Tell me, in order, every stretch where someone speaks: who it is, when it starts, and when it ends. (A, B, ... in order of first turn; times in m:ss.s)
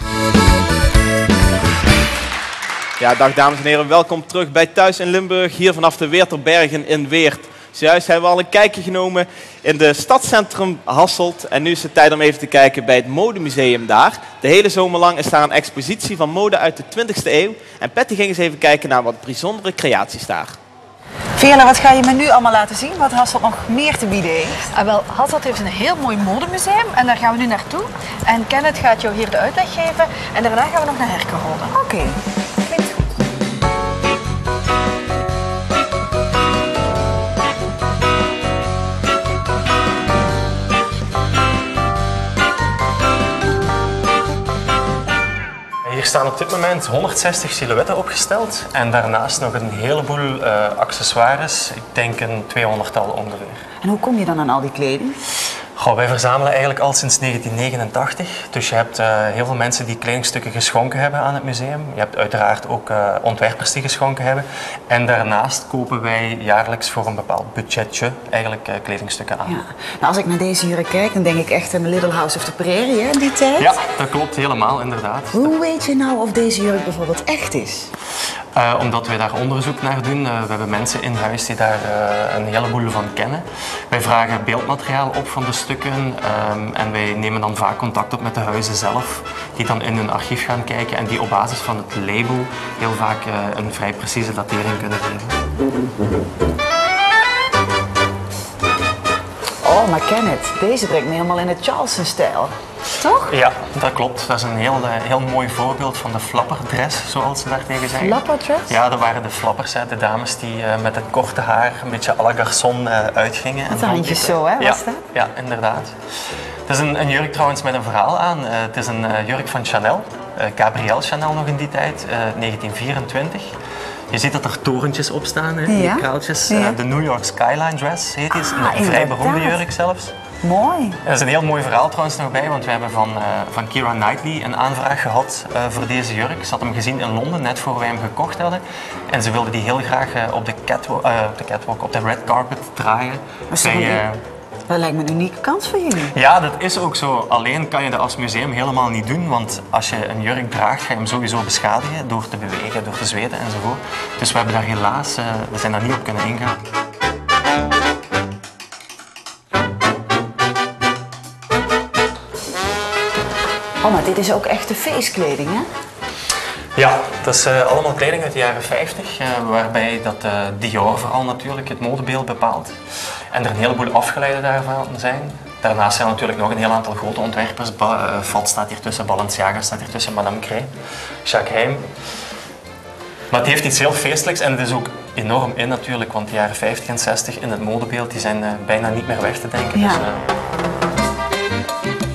0:03.0-0:20.6 A
0:21.4-0:24.6 B
0:24.7-0:31.7 C
0:31.7-0:32.2 B
0:32.7-0:32.9 C
0:45.8-0:53.6 D
0:53.8-0:55.2 B
0:55.8-1:09.6 D
1:09.5-1:13.8 B
1:13.6-1:15.5 D
1:15.3-1:17.9 B
1:18.6-1:35.4 D
1:39.6-1:43.4 B
1:43.2-2:03.5 D
1:47.9-1:48.8 B
1:53.7-1:55.1 B
2:04.1-2:10.1 D
2:05.7-2:06.8 B
2:08.3-2:09.6 B
2:10.4-2:11.0 B
2:11.1-2:24.2 D
2:23.5-2:24.0 B
2:24.7-2:26.1 B
2:26.1-2:36.6 D
2:43.8-2:45.7 B
2:46.8-2:52.8 D
2:53.3-3:00.7 D
3:01.2-3:01.9 D
3:03.3-3:10.2 D
3:09.8-3:10.0 B